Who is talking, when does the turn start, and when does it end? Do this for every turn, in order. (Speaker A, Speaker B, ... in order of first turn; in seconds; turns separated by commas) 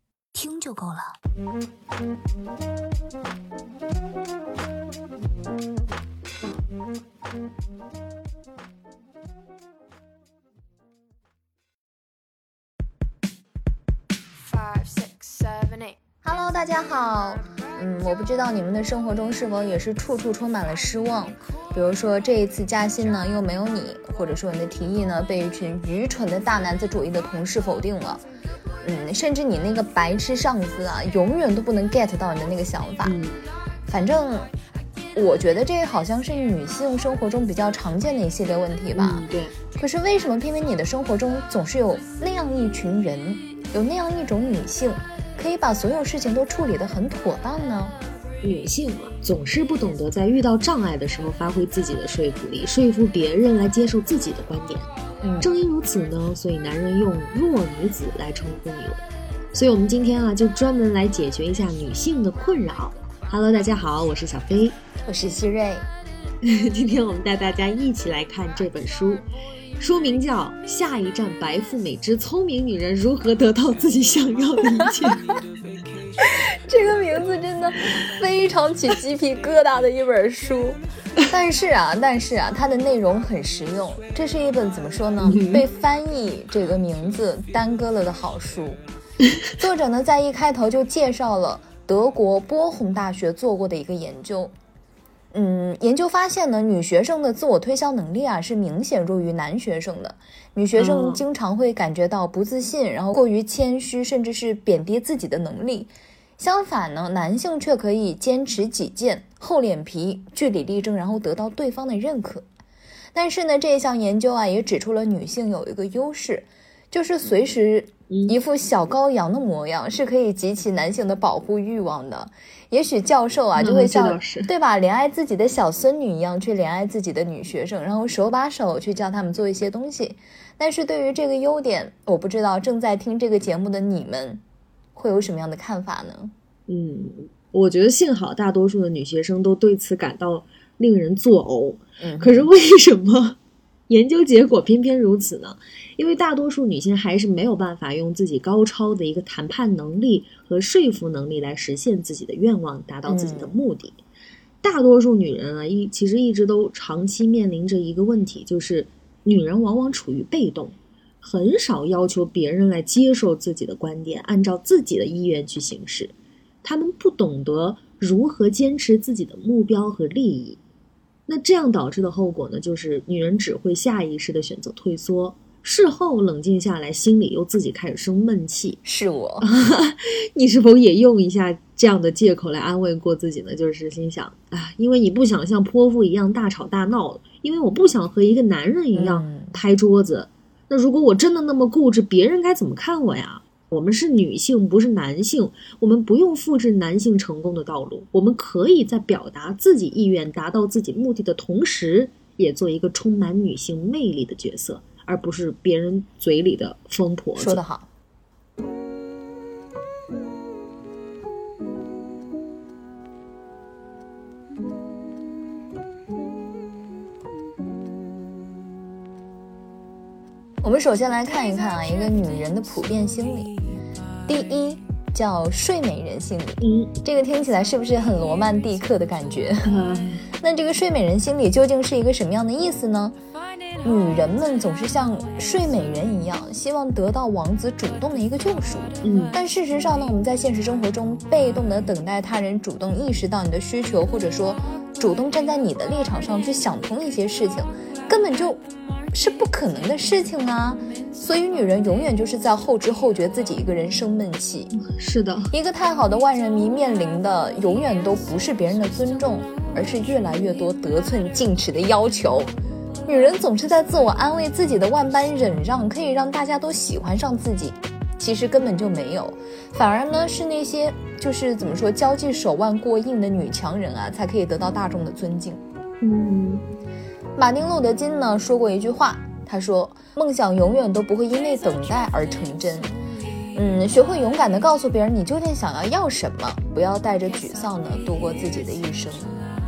Speaker A: 0.3-1.1, Speaker A: 16.2-28.2, Speaker A: 28.8-33.2, Speaker B: 33.0-33.4, Speaker A: 33.9-34.5, Speaker A: 35.1-39.2, Speaker B: 38.9-39.5, Speaker A: 39.8-48.0, Speaker B: 48.4-54.9, Speaker A: 55.2-55.5, Speaker B: 55.4-59.0, Speaker B: 59.5-64.8, Speaker A: 65.0-65.9, Speaker B: 66.4-69.2, Speaker B: 69.8-75.2, Speaker A: 76.2-88.8, Speaker B: 85.2-85.7, Speaker A: 89.6-94.5, Speaker A: 95.3-112.5, Speaker B: 100.8-101.2, Speaker A: 113.2-134.4, Speaker B: 118.1-118.3, Speaker B: 123.6-124.5, Speaker A: 134.9-136.3, Speaker B: 136.7-143.4, Speaker A: 142.0-142.5, Speaker B: 143.9-154.0, Speaker A: 153.1-153.6, Speaker B: 154.6-170.6, Speaker B: 171.3-178.8, Speaker A: 178.8-179.5, Speaker B: 179.4-207.6, Speaker A: 188.9-189.6, Speaker A: 207.3-207.9, Speaker A: 220.6-223.6, Speaker A: 224.3-229.7, Speaker B: 226.6-226.9, Speaker B: 229.7-230.3, Speaker A: 230.4-233.2, Speaker A: 233.8-248.6, Speaker B: 239.0-239.4, Speaker A: 249.1-254.7, Speaker B: 254.8-255.5, Speaker A: 255.5-262.5, Speaker A: 263.1-275.6, Speaker B: 276.0-276.6, Speaker A: 277.4-283.0, Speaker A: 283.5-289.4